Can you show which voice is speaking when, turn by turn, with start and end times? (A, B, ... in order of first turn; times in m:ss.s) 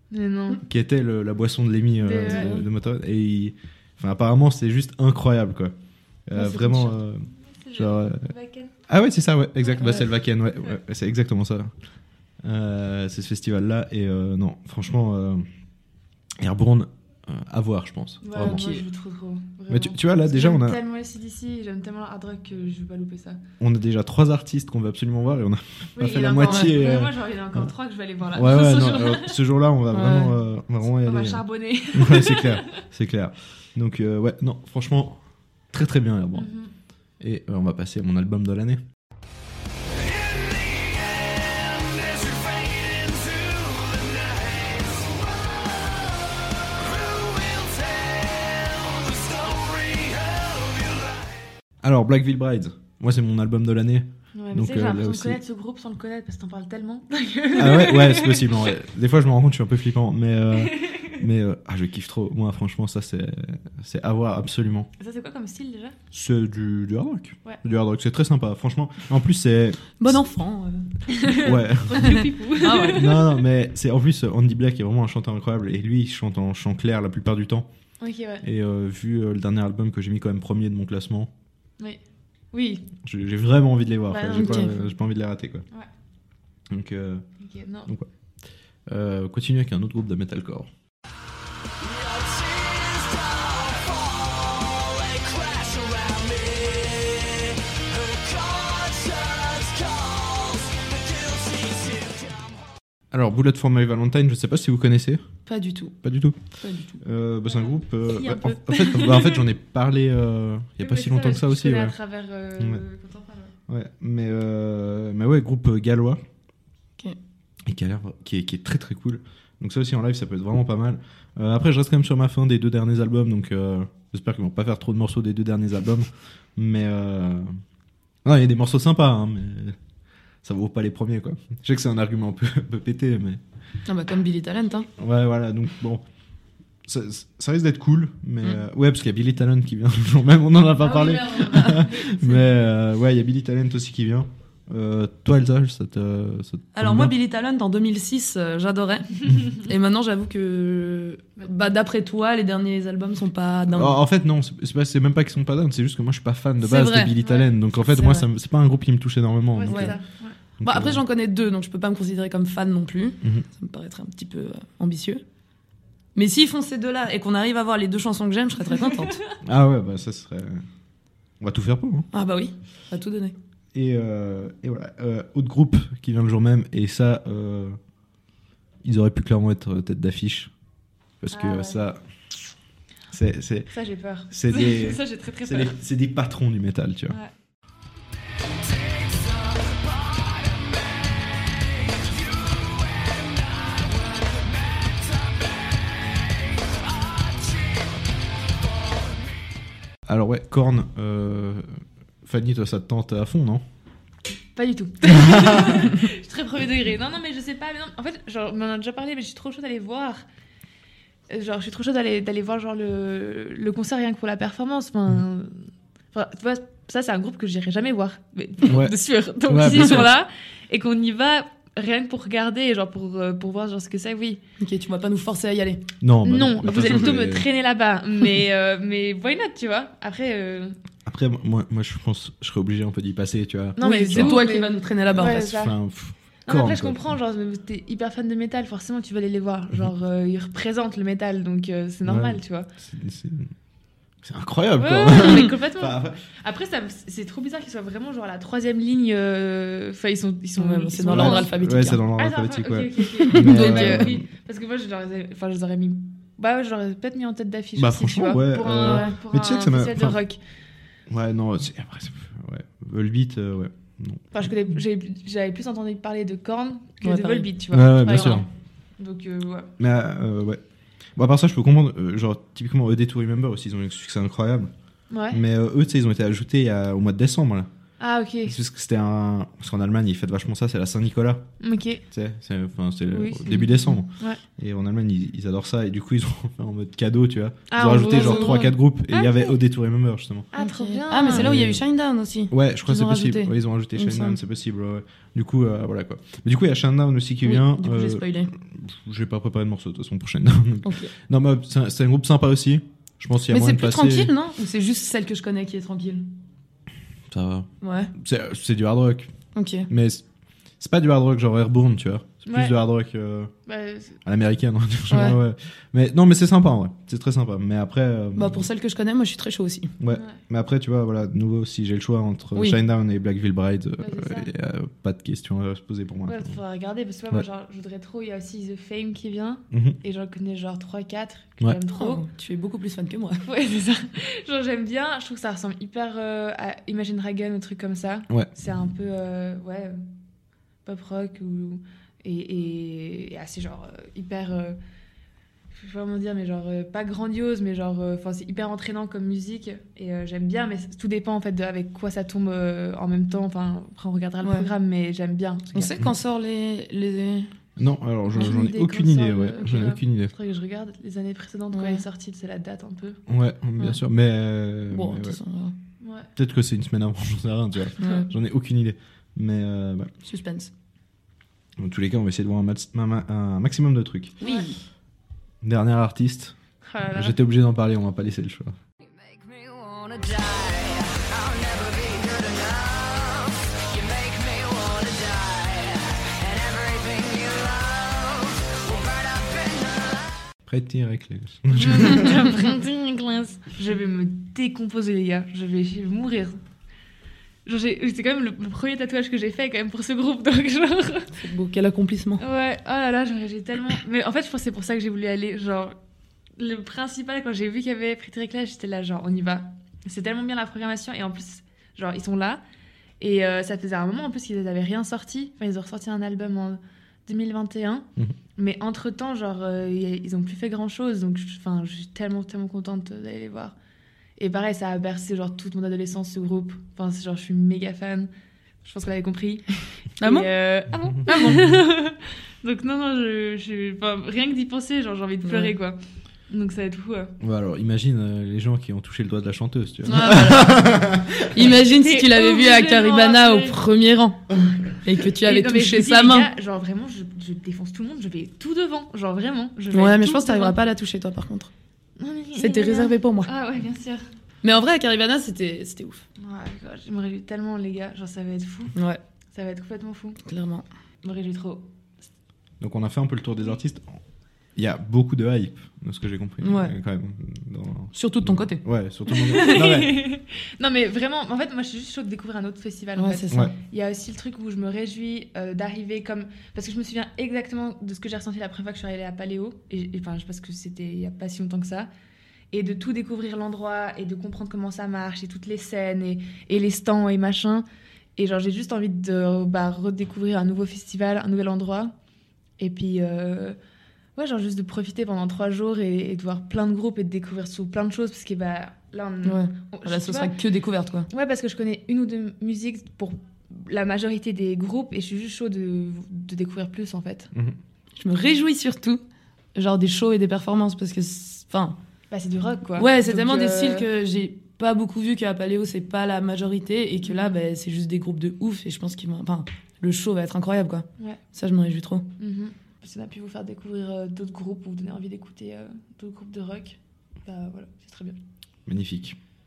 0:00.1-0:00.6 A
0:00.6-0:05.7 B
0:02.0-0:02.6 A
0:02.2-0:02.6 C
0:06.3-0:08.3 B
0:06.4-0:06.9 C
0:07.5-0:08.7 A
0:08.9-0:11.7 B
0:09.7-0:10.1 A
0:12.4-0:15.4 B
0:16.4-0:18.7 B
0:18.2-0:23.4 A
0:18.4-0:18.8 C
0:19.7-0:20.8 B
0:23.6-0:27.7 B
0:26.0-0:29.4 A
0:26.4-0:26.7 C
0:28.3-0:36.5 B
0:29.9-0:30.4 C
0:30.9-0:32.8 A
0:36.4-0:36.7 A
0:37.2-0:38.8 B
0:39.9-0:51.5 D
0:51.8-0:55.4 B
0:54.4-0:58.7 A
0:57.5-1:04.9 B
1:00.6-1:01.2 A
1:05.0-1:06.0 A
1:06.1-1:10.2 B
1:10.0-1:11.4 C
1:11.1-1:13.3 A
1:11.3-1:17.7 B
1:12.0-1:13.3 C
1:18.0-1:18.4 A
1:18.4-1:21.3 B
1:22.5-1:22.9 A
1:23.0-1:25.7 B
1:24.1-1:24.9 A
1:24.3-1:24.7 C
1:26.7-1:27.3 B
1:27.4-1:27.9 A
1:28.9-1:30.7 B
1:31.8-1:42.6 D
1:43.1-1:45.3 B
1:45.5-1:46.0 C
1:46.0-1:46.4 B
1:46.6-1:47.0 C
1:47.0-1:52.0 B
1:47.5-1:49.4 A
1:50.8-1:53.6 A
1:53.7-1:56.2 B
1:57.6-2:07.6 B
2:08.2-2:09.8 B
2:10.4-2:13.4 B
2:13.9-2:14.9 C
2:15.0-2:16.0 B
2:16.8-2:27.1 B
2:20.8-2:22.4 C
2:26.8-2:34.0 C
2:33.7-2:40.0 B
2:36.6-2:37.3 C
2:37.8-2:38.3 C
2:39.5-2:40.4 A
2:39.7-2:40.0 C
2:40.6-2:41.0 B
2:40.6-2:45.2 C
2:46.2-2:49.2 C
2:49.4-2:50.6 B
2:51.4-2:52.1 B
2:52.1-2:53.4 C
2:53.7-2:57.8 B
2:58.8-3:00.5 B
3:01.2-3:02.0 B
3:01.3-3:01.8 A
3:03.1-3:03.7 B
3:03.7-3:05.8 A
3:04.3-3:07.2 B
3:08.4-3:19.4 D
3:20.1-3:23.6 B
3:24.6-3:30.2 A
3:25.1-3:25.8 B
3:31.3-3:44.4 A
3:38.7-3:40.1 B
3:44.6-3:45.9 C
3:46.0-3:47.5 B
3:46.2-3:50.8 A
3:51.1-3:54.4 B
3:53.8-3:55.8 A
3:53.8-3:55.5 C
3:55.1-3:57.2 B
3:56.5-4:02.7 A
4:02.0-4:03.5 B
4:04.2-4:06.2 B
4:04.8-4:11.5 A
4:10.6-4:12.0 C
4:11.0-4:14.2 B
4:12.1-4:20.4 A
4:13.2-4:14.1 C
4:17.8-4:20.2 B
4:18.7-4:19.1 C
4:21.1-4:24.6 B
4:24.3-4:28.5 A
4:27.0-4:27.5 C
4:27.7-4:28.5 B
4:28.1-4:28.4 C
4:29.0-4:29.7 A
4:29.8-4:30.6 B
4:31.2-4:34.7 B
4:35.1-4:35.4 A
4:35.3-4:37.7 B
4:38.0-4:38.6 A
4:38.5-4:41.5 B
4:41.6-4:42.0 A
4:42.1-4:50.5 B
4:43.1-4:44.4 A
4:47.7-4:49.6 A
4:47.9-4:48.8 C
4:50.5-4:51.5 A
4:50.6-4:54.4 C
4:51.3-4:51.8 B
4:52.5-5:04.3 B
4:57.4-4:58.5 C
5:00.8-5:01.1 C
5:03.5-5:06.3 C
5:07.3-5:09.4 B
5:07.8-5:08.1 C
5:09.6-5:09.9 C
5:09.9-5:10.3 B
5:10.8-5:13.5 B
5:12.5-5:12.8 A
5:13.7-5:14.2 A
5:14.2-5:18.7 B
5:15.1-5:15.4 C
5:18.4-5:19.9 C
5:20.0-5:26.6 B
5:20.1-5:20.4 A
5:24.0-5:24.5 A
5:26.3-5:32.3 A
5:29.7-5:30.0 B
5:31.9-5:33.4 C
5:33.4-5:40.1 A
5:40.8-5:44.8 A
5:45.7-5:56.1 A
5:55.7-5:57.5 C
5:57.8-6:00.3 B
5:58.3-6:03.2 A
6:01.7-6:02.0 C
6:03.3-6:05.4 B
6:04.9-6:05.8 C
6:06.0-6:06.3 A
6:06.4-6:10.1 B
6:08.0-6:08.3 C
6:10.2-6:10.7 C
6:11.8-6:14.4 B
6:14.4-6:14.8 C
6:14.4-6:14.7 A
6:15.6-6:16.6 B
6:16.8-6:17.4 A
6:17.1-6:18.8 B
6:19.1-6:30.5 E
6:30.7-6:32.5 B
6:31.8-6:36.6 A
6:37.7-6:41.4 A
6:41.4-6:42.4 C
6:42.4-6:46.0 A
6:46.6-6:52.6 A
6:53.2-7:03.8 A
7:04.4-7:08.3 A
7:08.8-7:16.0 A
7:10.2-7:10.5 C
7:11.4-7:11.8 B
7:15.4-7:15.7 C
7:16.5-7:17.3 A
7:17.4-7:21.7 B
7:20.0-7:26.5 C
7:21.8-7:23.8 A
7:24.8-7:30.8 A
7:29.9-7:31.7 C
7:32.2-7:34.2 A
7:32.6-7:33.5 C
7:34.6-7:36.2 C
7:36.4-7:39.0 A
7:39.0-7:39.2 C
7:39.5-7:40.4 A
7:40.4-7:40.8 C
7:41.2-7:41.9 A
7:42.8-7:44.2 B
7:44.8-7:50.3 B
7:46.6-7:46.9 C
7:48.1-7:48.8 C
7:49.3-8:02.1 A
7:53.2-7:53.7 C
8:02.7-8:07.8 A
8:08.4-8:12.1 A
8:12.8-8:13.8 A
8:14.4-8:20.5 A
8:19.4-8:21.3 C
8:21.3-8:27.5 A
8:28.2-8:29.2 C
8:29.8-8:32.0 C
8:32.3-8:34.1 A
8:33.0-8:42.3 C
8:37.3-8:37.5 A
8:42.4-8:48.4 A
8:48.9-8:49.4 B